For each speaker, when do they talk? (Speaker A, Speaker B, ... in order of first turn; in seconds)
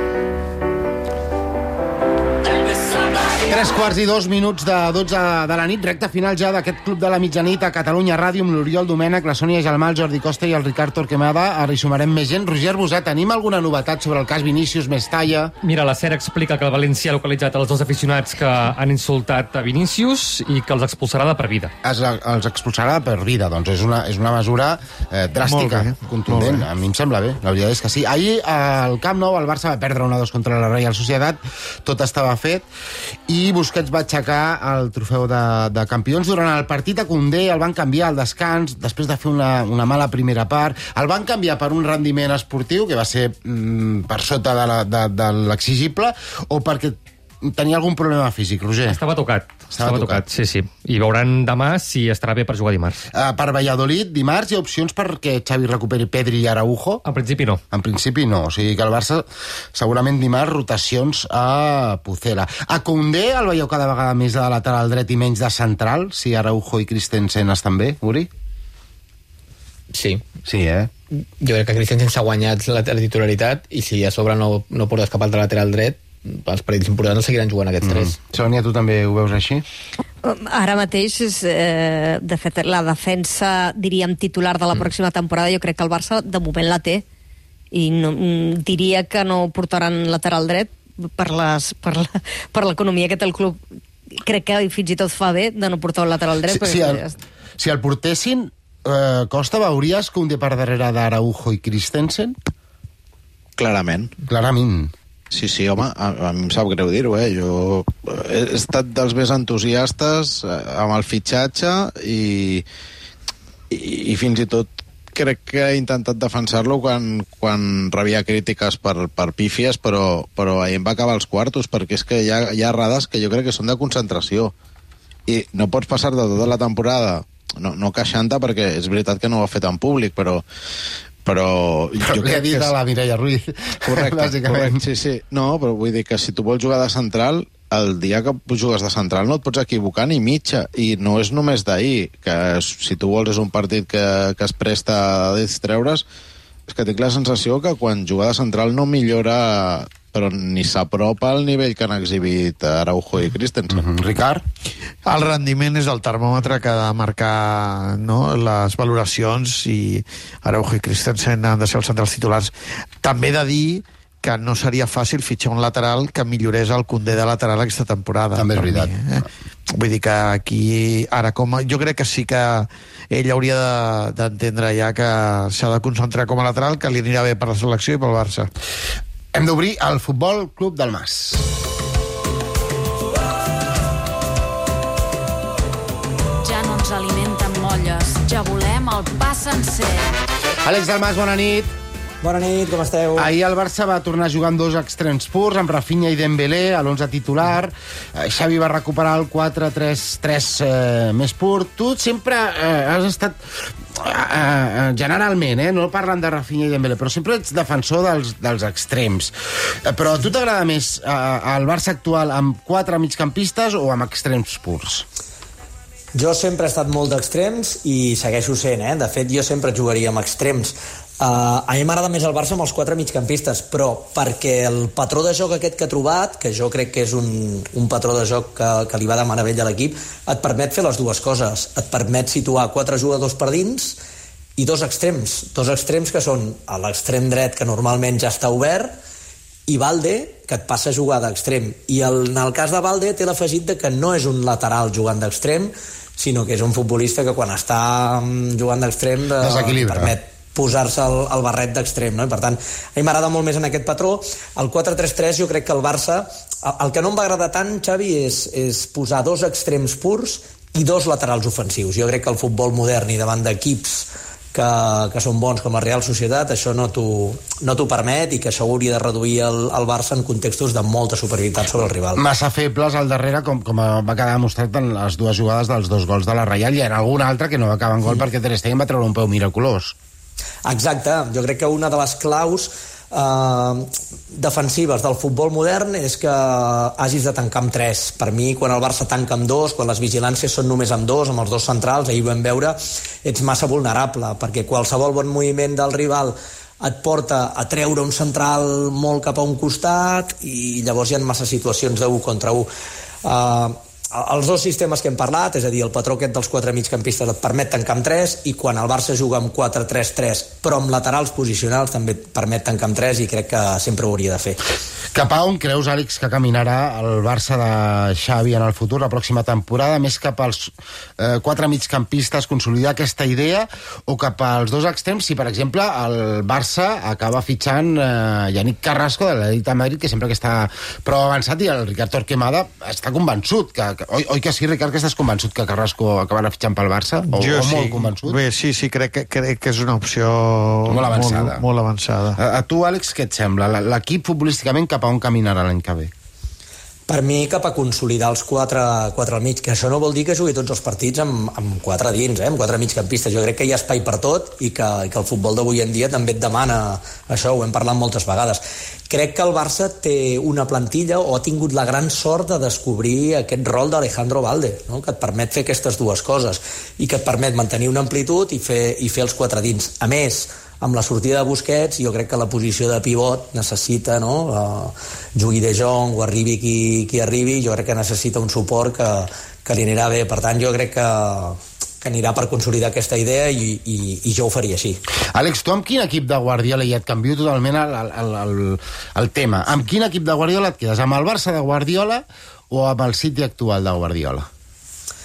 Speaker A: 3.4-15.5, 21.8-32.7, 33.3-49.0, 49.7-50.2, 53.1-57.0, 57.7-68.3, 70.5-70.9, 77.8-79.6, 96.5-97.0, 97.6-102.3, 104.3-104.9, 132.0-134.8, 153.7-154.4, 168.3-168.9, 179.3-181.5, 190.6-191.7, 193.2-203.4, 204.0-209.3, 209.9-215.1, 249.4-250.2, 272.1-279.9, 315.1-338.4, 340.9-341.6, 342.4-346.1, 385.3-394.4
Speaker B: 15.6-21.7, 48.9-53.0, 57.0-57.6
Speaker C: 25.4-26.7, 155.0-178.5, 337.3-342.4
Speaker D: 69.9-70.2, 71.4-78.1
Speaker E: 80.2-87.0, 87.7-93.6, 94.2-97.1
Speaker F: 103.6-104.1, 105.3-112.7, 113.7-124.5, 125.3-130.4, 131.2-132.7, 133.9-146.1, 146.7-153.8
Speaker G: 186.4-190.1
Speaker H: 192.2-193.3, 216.1-234.0, 234.6-238.9, 239.7-272.2, 280.6-302.7, 303.2-314.6, 347.1-385.0